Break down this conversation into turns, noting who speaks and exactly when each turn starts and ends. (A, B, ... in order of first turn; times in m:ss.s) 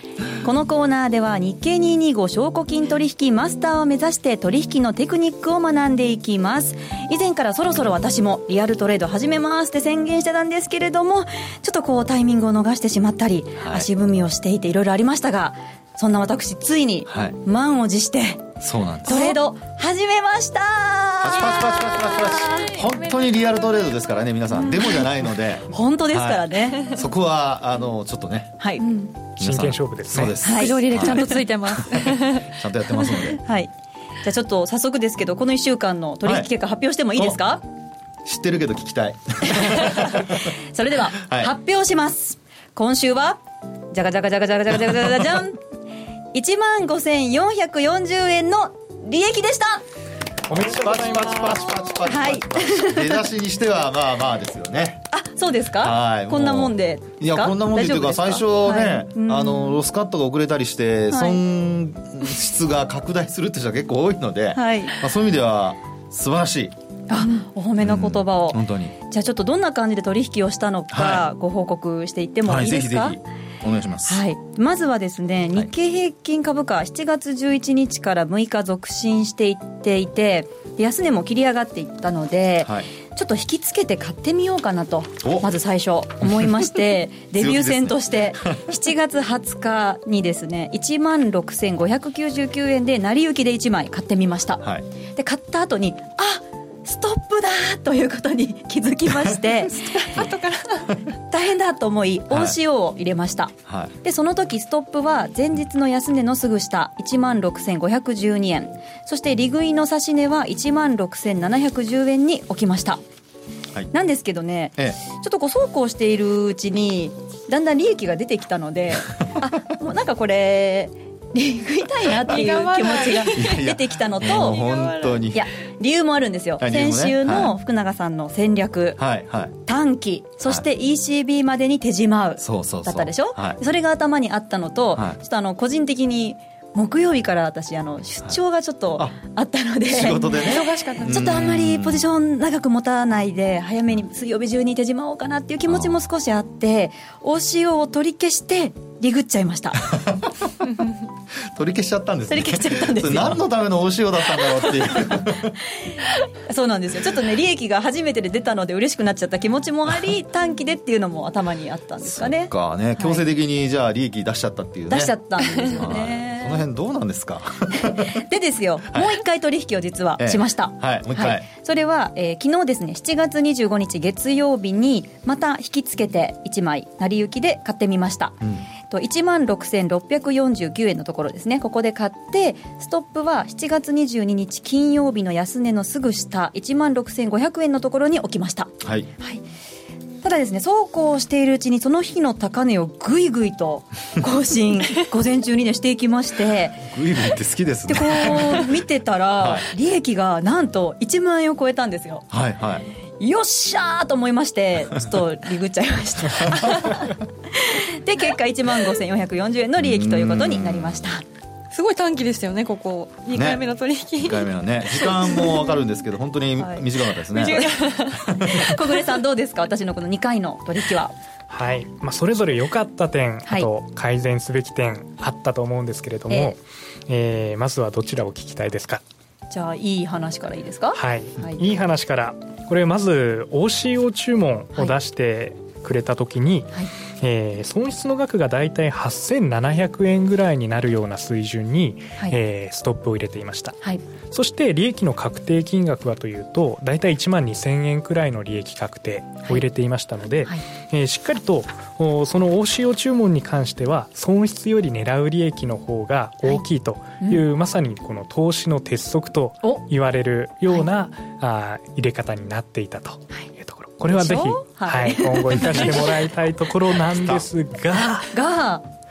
0:00.4-0:22.6 A
0:13.6-0:13.9 B
0:17.1-0:17.4 B
0:18.6-0:19.3 B
0:21.2-0:28.6 B
0:21.4-0:23.2 C
0:25.7-0:26.9 A
0:28.6-0:28.8 A
0:28.8-0:29.1 C
0:29.4-0:30.4 D
0:29.4-0:33.4 B
0:30.4-0:32.5 C
0:30.4-0:31.4 A
0:33.0-0:33.7 A
0:34.2-0:37.6 A
0:38.2-0:40.5 B
0:39.5-0:45.6 A
0:41.2-0:41.5 B
0:46.3-0:49.8 A
0:50.5-0:51.9 D
0:50.5-0:55.0 B
0:52.1-0:53.1 A
0:55.1-0:59.8 A
0:55.8-1:06.7 B
1:01.1-1:01.4 A
1:04.5-1:04.9 A
1:07.1-1:13.2 A
1:07.8-1:08.9 B
1:10.9-1:11.2 B
1:12.4-1:14.2 B
1:14.0-1:40.3 A
1:25.2-1:25.5 B
1:26.2-1:26.7 B
1:27.3-1:28.7 B
1:39.7-1:41.0 C
1:41.3-1:53.0 A
1:42.3-1:42.6 B
1:43.7-1:43.9 B
1:53.9-2:04.6 A
2:02.2-2:03.7 C
2:03.3-2:05.5 B
2:04.2-2:05.2 C
2:05.3-2:09.0 A
2:06.6-2:07.6 B
2:09.0-2:09.5 B
2:09.6-2:20.5 A
2:12.4-2:13.6 B
2:19.9-2:22.1 B
2:20.2-2:21.2 C
2:21.0-2:29.8 A
2:25.7-2:25.9 B
2:29.8-2:30.6 B
2:31.4-2:35.6 B
2:32.3-2:33.4 A
2:34.4-2:35.1 A
2:36.4-2:43.2 A
2:42.0-2:48.2 B
2:44.9-2:46.6 A
2:47.8-2:58.4 A
2:48.9-2:49.2 B
2:50.2-2:51.5 B
2:58.4-2:58.7 B
2:58.9-3:09.4 A
3:08.8-3:09.1 B
3:10.2-3:16.9 A
3:16.9-3:18.7 B
3:17.9-3:22.2 A
3:19.4-3:19.7 B
3:22.3-3:22.8 B
3:23.2-3:31.2 A
3:26.4-3:26.9 B
3:29.8-3:30.9 B
3:31.7-3:35.7 C
3:33.3-3:33.6 B
3:34.2-3:38.8 B
3:36.6-3:36.8 A
3:37.3-3:38.3 C
3:37.4-3:37.8 A
3:38.4-3:41.1 A
3:41.5-3:49.0 D
3:46.3-3:46.6 A
3:49.5-3:51.6 A
3:50.9-4:28.3 D
4:24.1-4:26.1 A
4:28.3-4:28.8 A